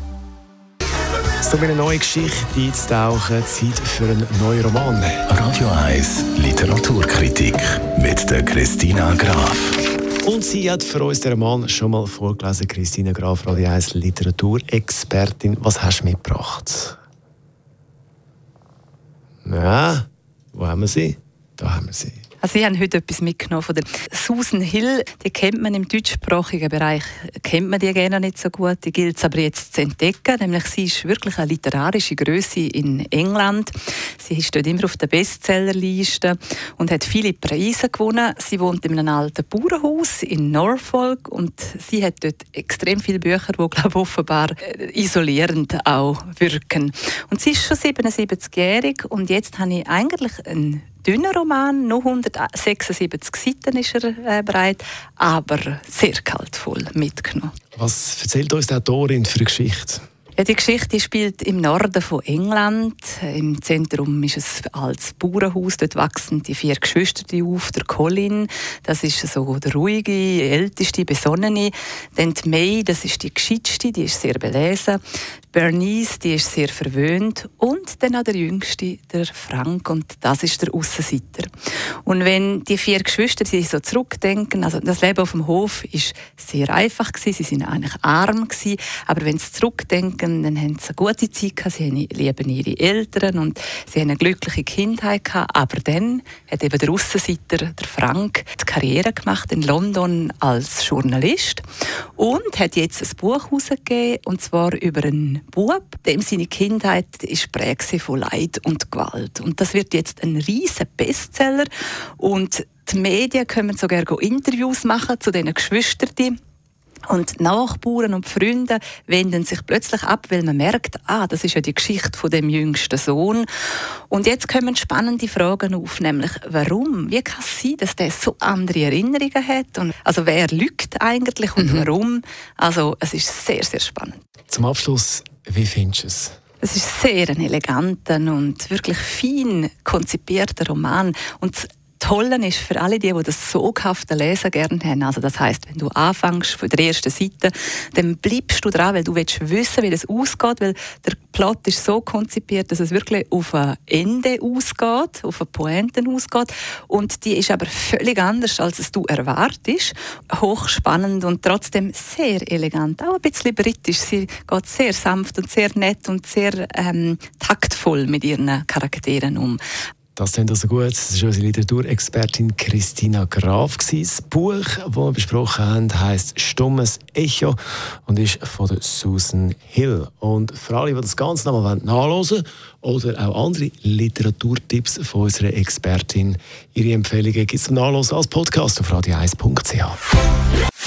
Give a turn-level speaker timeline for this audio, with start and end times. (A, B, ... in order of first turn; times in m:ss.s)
0:01.4-0:05.2 A
0:05.3-0:09.8 B
0:10.2-0:17.0 A
0:19.4-0:22.2 A
0:22.4-0:57.5 C
0:57.8-1:00.0 A
1:00.4-1:15.0 C
1:15.5-1:21.5 C
1:22.0-1:41.6 C
1:42.2-1:56.4 C
1:57.1-2:03.5 C
2:04.1-2:14.2 C
2:14.5-2:16.3 A
2:16.6-2:49.6 C
2:50.2-3:10.0 A